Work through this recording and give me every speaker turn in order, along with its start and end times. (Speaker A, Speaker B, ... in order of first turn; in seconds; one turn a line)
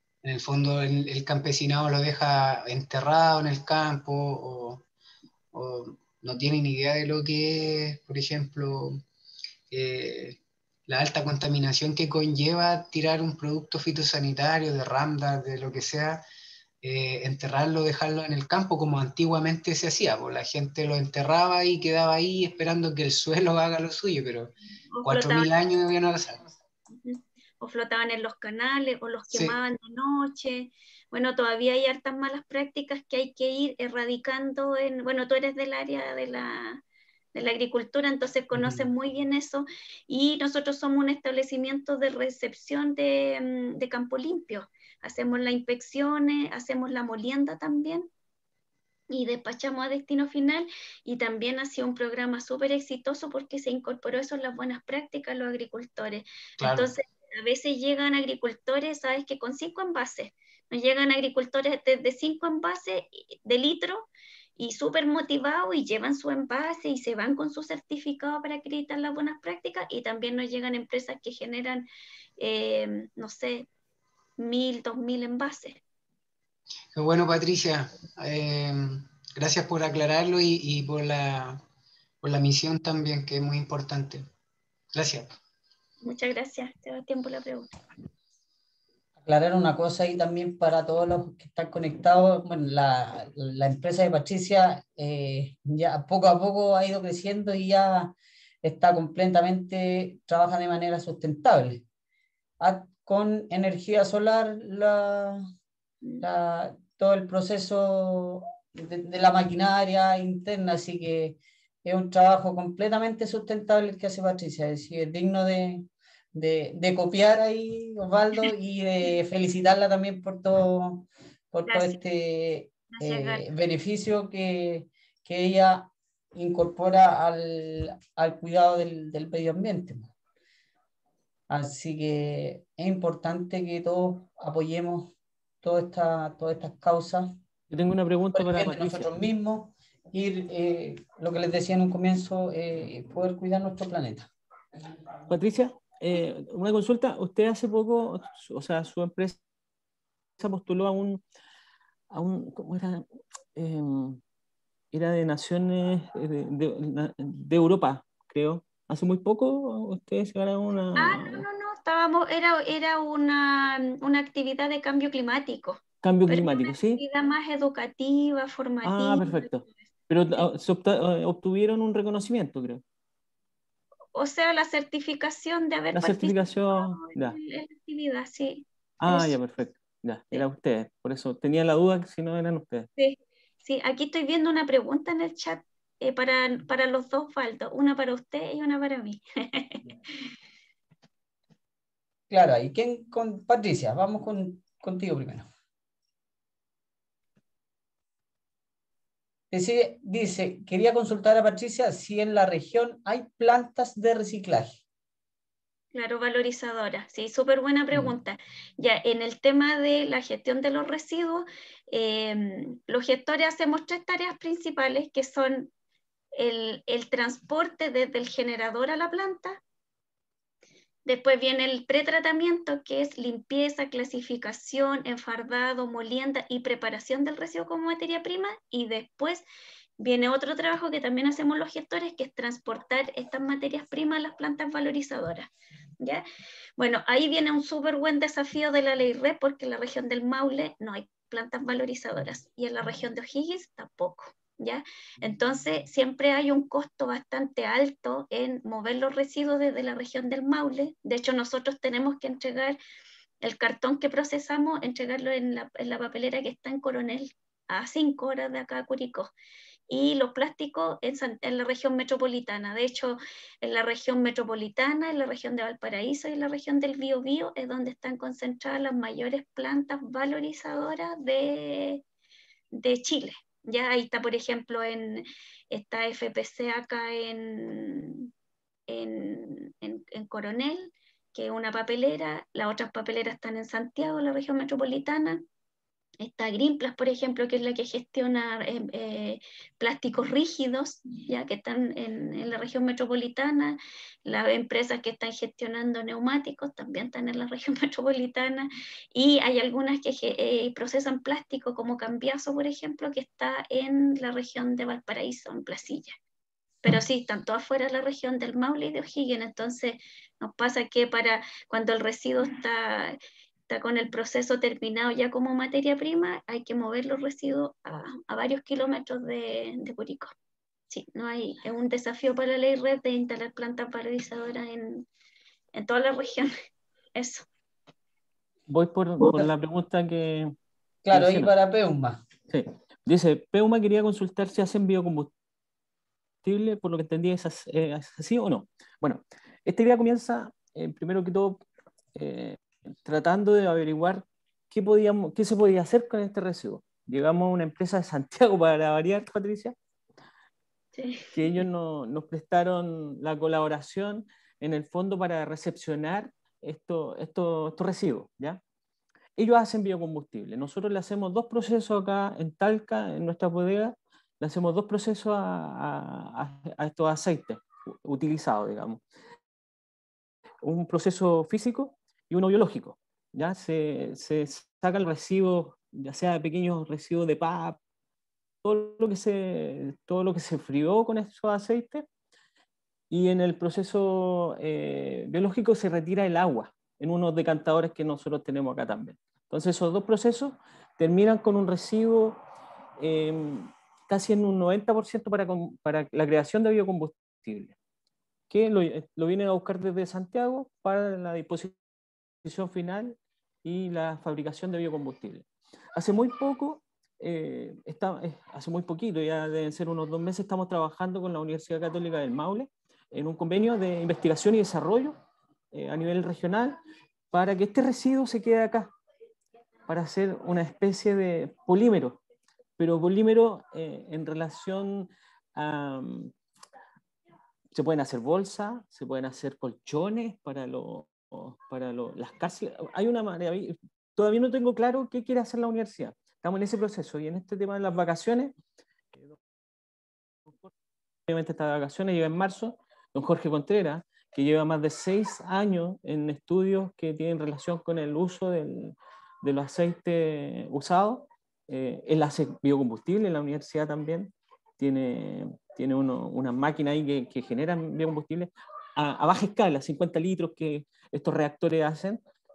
Speaker A: 0.2-4.9
Speaker A: 5.5-9.0
Speaker A: 9.7-16.2
Speaker A: 16.8-24.5
Speaker B: 24.9-25.5
Speaker A: 25.1-26.4
Speaker B: 27.0-36.8
Speaker A: 29.3-29.6
Speaker B: 37.3-48.1
Speaker A: 38.5-38.9
Speaker B: 49.1-73.7
Speaker A: 56.6-56.9
Speaker B: 74.4-75.8
Speaker A: 77.0-81.6
Speaker A: 82.2-84.2
Speaker A: 84.9-85.3
Speaker B: 86.0-87.7
Speaker C: 89.2-101.8
Speaker C: 102.6-105.4
Speaker C: 106.2-130.1
Speaker B: 121.7-122.0
Speaker B: 122.9-123.5
Speaker C: 131.5-137.3
Speaker D: 137.7-139.1
Speaker C: 138.3-144.3
Speaker D: 145.3-149.4
Speaker D: 150.4-151.2
Speaker D: 152.1-153.0
Speaker D: 153.6-154.2
Speaker D: 154.9-161.4
Speaker B: 161.0-169.5
Speaker D: 166.0-167.0
Speaker D: 168.8-172.8
Speaker B: 174.2-179.4
Speaker D: 175.9-177.4
Speaker D: 179.0-182.9
Speaker B: 183.0-190.3
Speaker C: 192.3-195.5
Speaker C: 199.5-204.8
Speaker B: 205.9-215.7
Speaker B: 216.3-219.6
Speaker B: 221.1-229.4
Speaker B: 230.0-236.2
Speaker B: 236.8-252.8
Speaker B: 253.4-259.3
Speaker B: 259.9-272.0
Speaker B: 272.7-278.3
Speaker B: 278.9-285.4
Speaker B: 286.2-306.1
Speaker B: 306.9-313.2
Speaker B: 313.7-320.3
Speaker B: 320.9-325.1
Speaker B: 325.7-326.5
Speaker B: 327.1-327.5
Speaker D: 328.7-330.6
Speaker C: 331.1-332.2
Speaker D: 331.1-331.5
Speaker D: 332.5-335.3
Speaker D: 336.4-341.6
Speaker D: 342.1-349.8
Speaker B: 350.9-351.4
Speaker D: 351.3-358.6
Speaker D: 359.4-369.0
Speaker D: 370.6-377.8
Speaker D: 378.6-382.1
Speaker D: 383.1-392.4
Speaker D: 393.0-397.8
Speaker D: 398.5-401.8
Speaker D: 402.4-405.4
Speaker D: 406.0-415.2
Speaker D: 415.7-416.8
Speaker D: 417.3-418.9
Speaker D: 419.9-422.2
Speaker D: 422.8-426.3
Speaker D: 427.7-438.5
Speaker D: 439.1-439.4
Speaker D: 440.5-440.7
Speaker D: 441.3-462.2